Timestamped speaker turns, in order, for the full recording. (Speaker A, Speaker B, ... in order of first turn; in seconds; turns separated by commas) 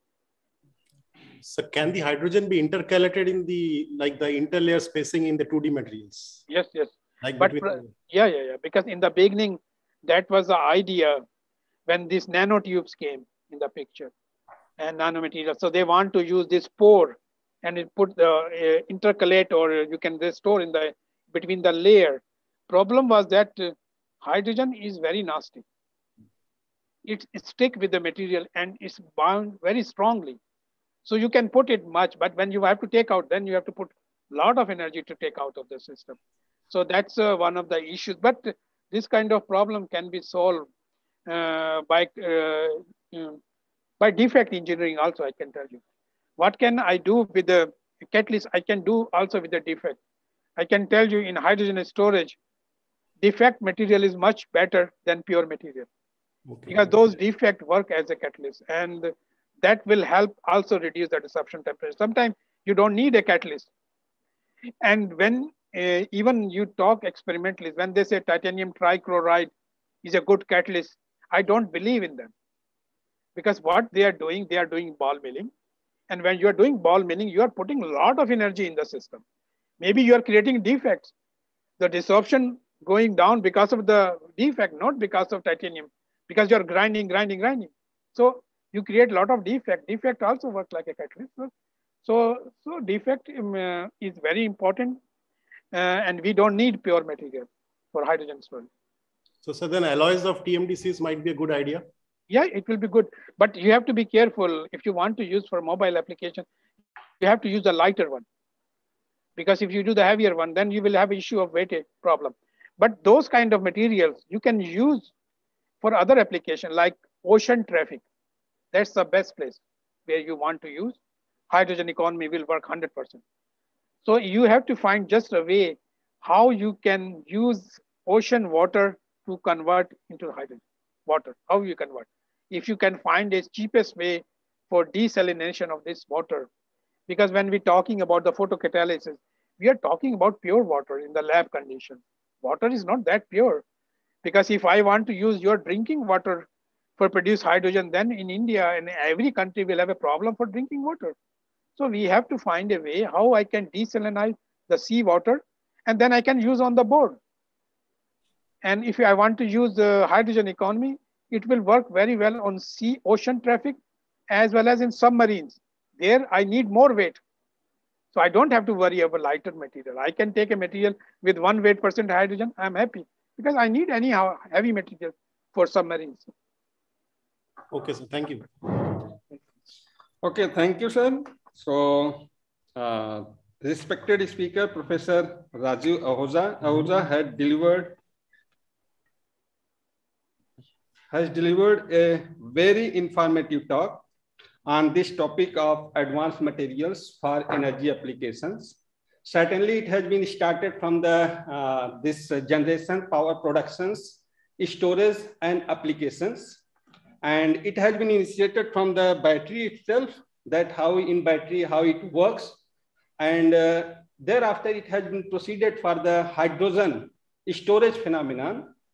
Speaker A: 1.4-6.4, Speaker B: 6.5-11.2, Speaker A: 7.2-7.9, Speaker B: 11.9-14.1, Speaker B: 14.8-25.6, Speaker B: 27.0-30.4, Speaker B: 31.0-36.1, Speaker B: 36.7-40.7, Speaker B: 41.3-43.4, Speaker B: 44.0-45.8, Speaker B: 46.4-50.0, Speaker B: 50.6-52.4, Speaker B: 53.2-55.9, Speaker A: 56.5-56.9, Speaker B: 56.7-63.7, Speaker B: 64.8-69.5, Speaker B: 70.0-72.3, Speaker B: 73.3-75.5, Speaker B: 76.1-79.2, Speaker B: 79.8-81.1, Speaker B: 81.8-91.5, Speaker B: 92.0-95.0, Speaker B: 95.7-98.7, Speaker A: 99.4-101.8, Speaker B: 102.3-106.5, Speaker B: 107.2-108.2, Speaker B: 109.4-115.1, Speaker B: 115.8-118.0, Speaker B: 118.7-121.0, Speaker B: 121.5-123.2, Speaker B: 124.0-136.5, Speaker B: 137.1-143.6, Speaker B: 144.2-146.5, Speaker B: 147.0-151.1, Speaker B: 151.8-157.2, Speaker B: 158.6-163.8, Speaker B: 164.3-167.2, Speaker B: 168.1-176.3, Speaker A: 177.7-178.5, Speaker C: 180.2-188.0, Speaker C: 191.1-194.0, Speaker C: 194.7-206.6, Speaker C: 207.2-212.6, Speaker C: 213.2-218.7